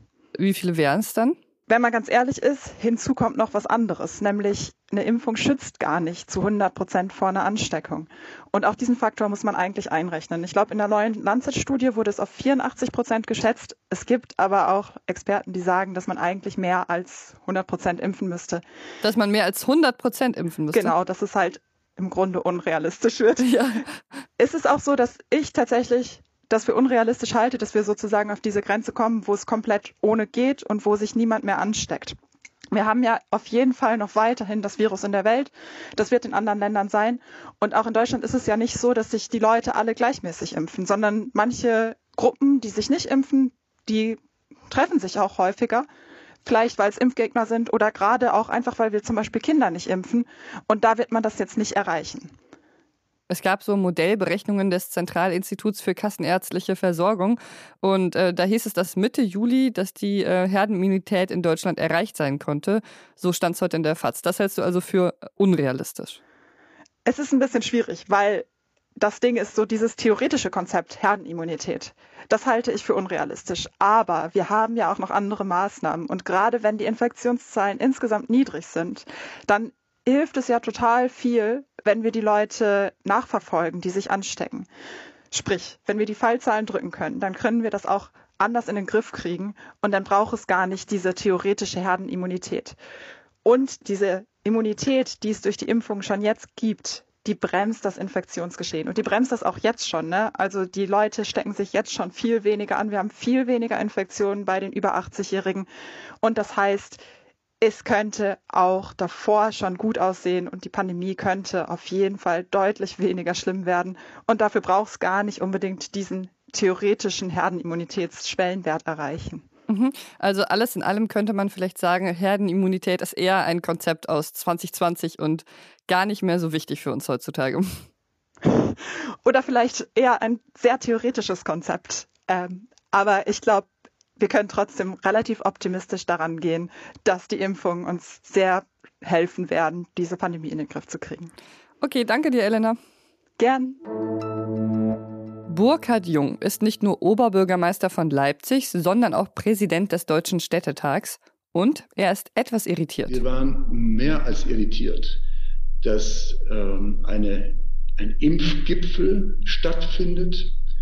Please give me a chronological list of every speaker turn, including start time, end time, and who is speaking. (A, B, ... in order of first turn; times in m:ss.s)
0:00.4-0:01.4 A
0:01.7-0:18.6 B
0:19.0-0:20.9 A
0:20.7-0:23.5 B
0:23.4-0:23.8 A
0:24.4-0:32.2 B
0:32.7-0:45.8 B
0:46.4-0:52.3 B
0:53.3-1:06.2 A
1:07.0-1:08.5 B
1:09.0-1:24.7 B
1:25.3-1:32.8 B
1:33.4-1:45.7 B
1:46.2-1:47.0 B
1:47.6-1:59.4 B
1:59.7-2:07.7 A
2:08.4-2:21.3 B
2:21.8-2:22.8 A
2:23.4-2:23.8 B
2:25.5-2:33.2 A
2:33.1-2:35.2 C
2:35.8-2:40.5 C